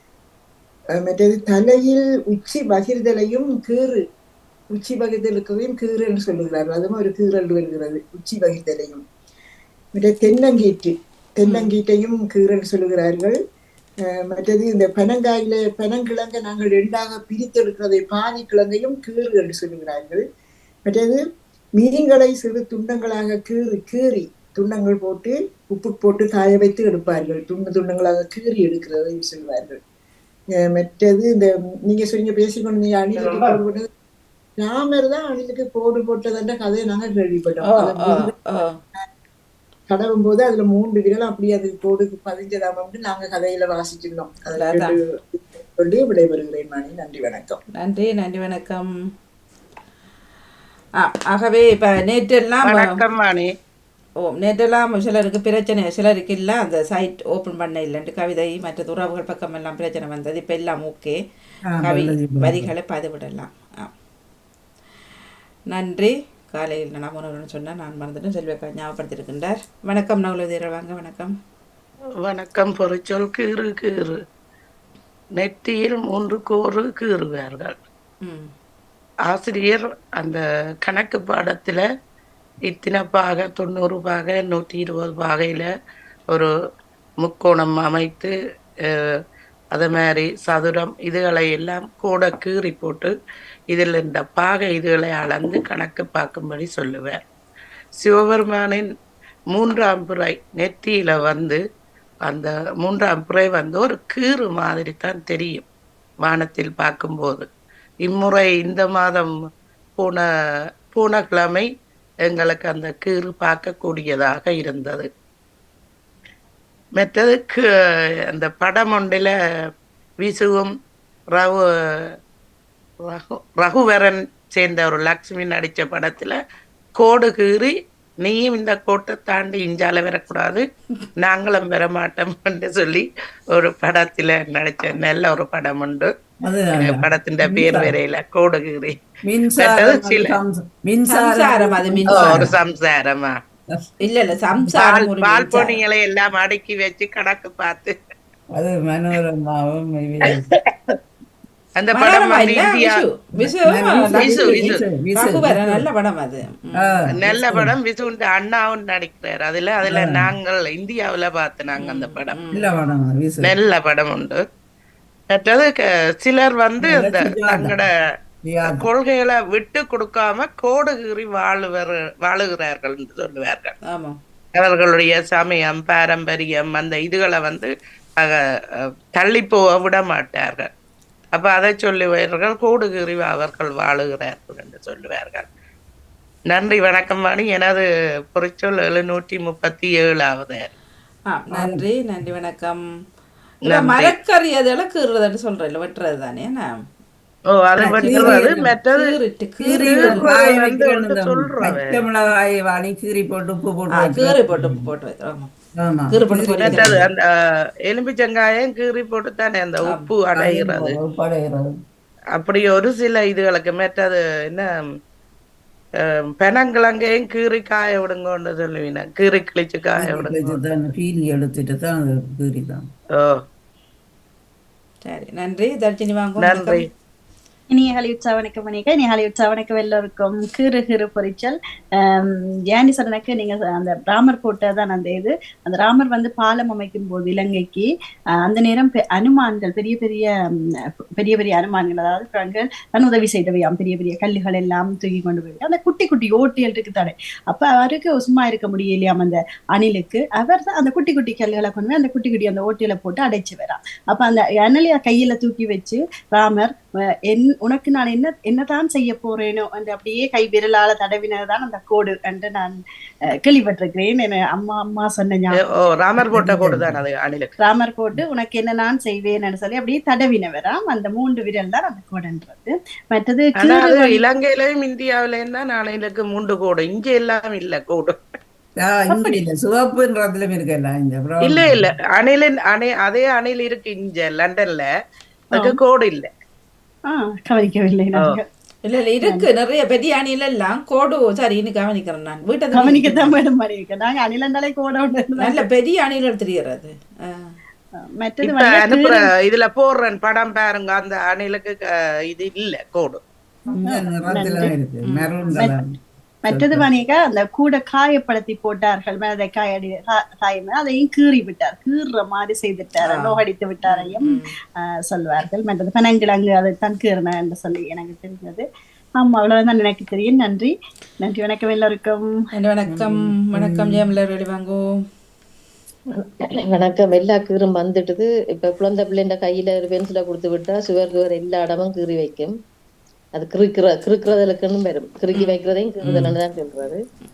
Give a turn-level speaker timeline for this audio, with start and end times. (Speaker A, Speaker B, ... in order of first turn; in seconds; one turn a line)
Speaker A: 0.9-4.0
Speaker A: 4.7-9.0
Speaker A: 9.9-13.3
Speaker B: 11.4-11.7
Speaker A: 14.1-20.2
Speaker A: 20.9-21.2
Speaker A: 21.8-29.8
Speaker A: 30.6-33.9
Speaker A: 34.6-38.3
Speaker B: 37.6-38.7
Speaker A: 39.9-47.6
Speaker B: 44.6-44.9
Speaker B: 47.8-48.9
Speaker B: 51.0-53.0
Speaker C: 52.7-53.5
Speaker B: 54.2-61.2
Speaker D: 61.7-62.7
Speaker B: 61.8-63.9
Speaker B: 65.7-71.3
Speaker C: 72.2-74.2
Speaker C: 75.4-77.8
Speaker B: 78.2-78.5
Speaker C: 79.3-81.8
Speaker C: 82.7-85.7
Speaker C: 87.2-88.3
Speaker C: 89.7-93.1
Speaker C: 93.7-97.2
Speaker C: 98.0-98.8
Speaker C: 99.5-101.6
Speaker C: 102.3-105.6
Speaker C: 106.2-107.5
Speaker C: 108.0-109.3
Speaker C: 110.0-110.2
Speaker C: 110.9-111.7
Speaker C: 112.3-115.1
Speaker C: 117.0-117.7
Speaker C: 118.3-119.3
Speaker C: 120.2-120.7
Speaker C: 121.3-122.1
Speaker C: 123.0-126.4
Speaker C: 127.0-130.6
Speaker C: 131.2-136.1
Speaker D: 136.4-137.9
Speaker C: 136.8-138.9
Speaker D: 139.2-142.5
Speaker C: 139.6-140.3
Speaker B: 141.1-142.5
Speaker C: 142.2-143.3
Speaker B: 144.0-145.8
Speaker C: 144.8-147.9
Speaker D: 148.5-150.5
Speaker C: 151.8-153.0
Speaker B: 151.9-157.1
Speaker D: 153.4-155.8
Speaker C: 154.2-154.8
Speaker D: 156.8-157.7
Speaker C: 157.1-162.3
Speaker D: 159.9-160.2
Speaker B: 161.8-162.6
Speaker D: 162.5-163.5
Speaker C: 163.4-164.4
Speaker C: 165.3-167.9
Speaker D: 166.8-167.8
Speaker D: 168.4-168.9
Speaker C: 168.7-173.7
Speaker B: 173.9-174.2
Speaker C: 174.6-178.4
Speaker C: 179.2-180.7
Speaker C: 181.3-185.5
Speaker C: 186.5-190.7
Speaker B: 191.3-192.8
Speaker D: 191.5-191.8
Speaker B: 193.7-196.7
Speaker C: 193.7-194.1
Speaker C: 197.5-199.1
Speaker D: 197.8-198.7
Speaker B: 197.9-200.2
Speaker D: 199.6-204.9
Speaker C: 199.7-202.0
Speaker B: 203.9-205.5
Speaker D: 205.8-207.0
Speaker B: 206.1-206.9
Speaker C: 206.6-207.2
Speaker C: 207.9-210.9
Speaker D: 210.3-211.7
Speaker C: 212.3-214.7
Speaker C: 216.0-220.5
Speaker D: 220.0-222.8
Speaker B: 225.0-226.9
Speaker C: 226.4-226.9
Speaker E: 227.7-237.9
Speaker E: 238.4-256.7
Speaker E: 257.2-262.8
Speaker E: 263.4-265.9
Speaker C: 265.6-267.5
Speaker D: 266.3-267.0
Speaker E: 267.6-274.2
Speaker C: 273.6-278.2
Speaker D: 278.8-281.9
Speaker C: 281.4-284.9
Speaker C: 285.5-286.3
Speaker E: 285.5-285.8
Speaker E: 287.1-288.5
Speaker B: 288.8-293.3
Speaker E: 292.7-295.6
Speaker B: 295.4-297.6
Speaker E: 298.2-299.2
Speaker C: 298.4-303.2
Speaker D: 303.8-305.9
Speaker E: 303.8-304.7
Speaker B: 305.1-305.3
Speaker E: 306.4-318.6
Speaker D: 306.5-306.8
Speaker B: 313.0-314.5
Speaker E: 319.2-322.3
Speaker B: 322.5-325.0
Speaker D: 322.9-324.0
Speaker F: 326.6-332.6
Speaker F: 333.3-337.0
Speaker D: 336.0-336.3